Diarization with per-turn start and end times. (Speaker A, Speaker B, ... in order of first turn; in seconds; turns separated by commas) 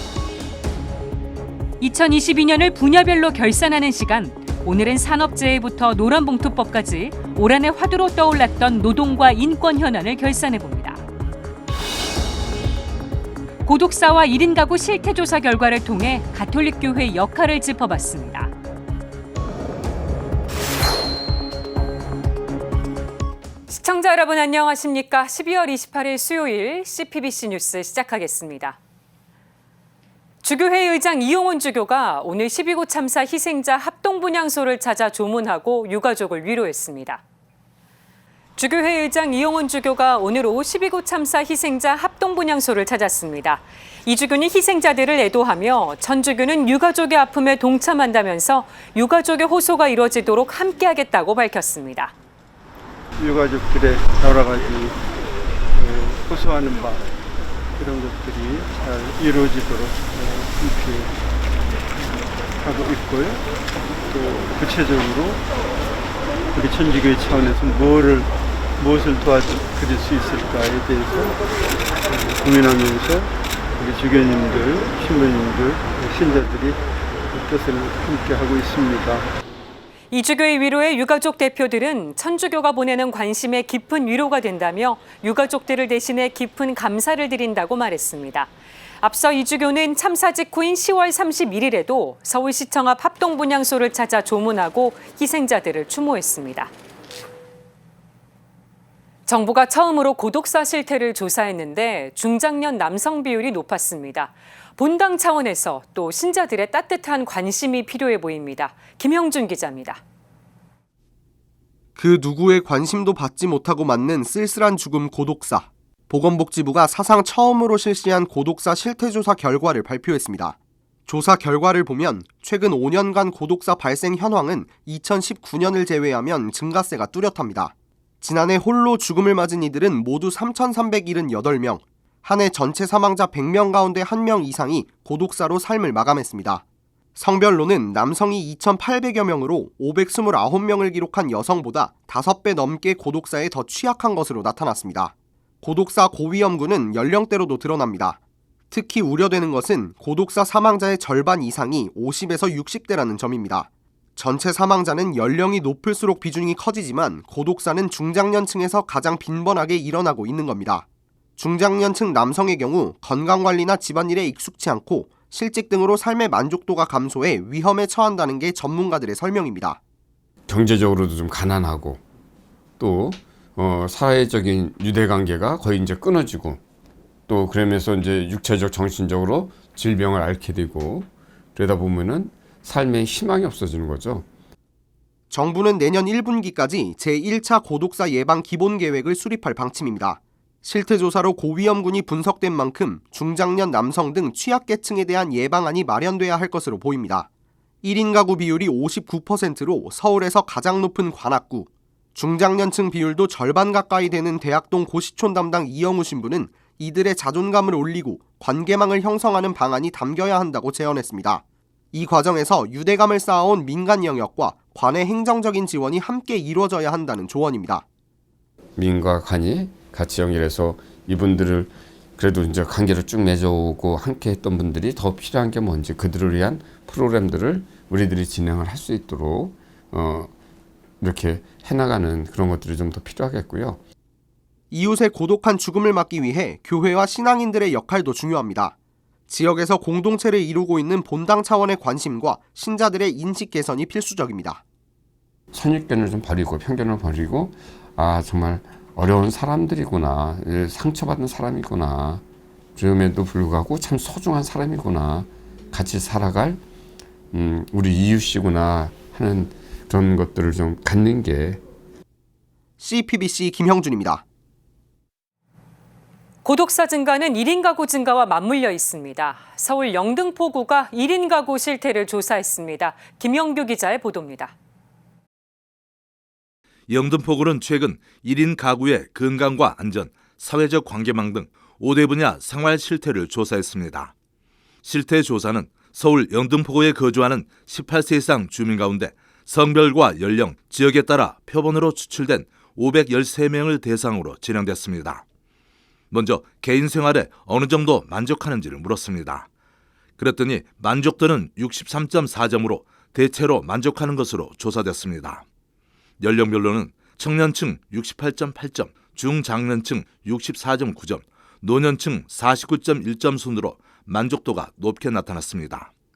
Speaker A: 1.8-11.0, Speaker A: 13.7-18.5, Speaker A: 23.7-28.8, Speaker A: 30.4-37.2, Speaker A: 38.6-52.1, Speaker B: 53.2-55.0, Speaker B: 55.7-57.1, Speaker B: 57.8-61.1, Speaker B: 62.6-63.4, Speaker B: 64.1-65.4, Speaker B: 66.5-71.4, Speaker B: 72.0-79.3, Speaker A: 80.1-96.7, Speaker A: 99.3-110.0, Speaker C: 112.0-120.5, Speaker C: 121.1-136.6, Speaker C: 137.2-148.2, Speaker C: 148.7-160.8, Speaker C: 161.4-169.8, Speaker D: 170.5-172.0, Speaker D: 172.8-176.6, Speaker D: 177.3-184.3, Speaker C: 185.3-197.3, Speaker C: 197.8-211.4, Speaker C: 211.9-217.8, Speaker D: 218.8-230.3, Speaker D: 231.0-233.8, Speaker C: 234.7-238.7, Speaker C: 239.3-244.6, Speaker D: 245.5-252.2, Speaker D: 252.8-256.6, Speaker D: 257.3-261.6, Speaker C: 262.8-264.2, Speaker A: 266.4-274.5, Speaker E: 276.9-284.1, Speaker E: 284.8-295.2, Speaker E: 296.1-299.5, Speaker E: 300.2-305.4, Speaker E: 306.2-315.9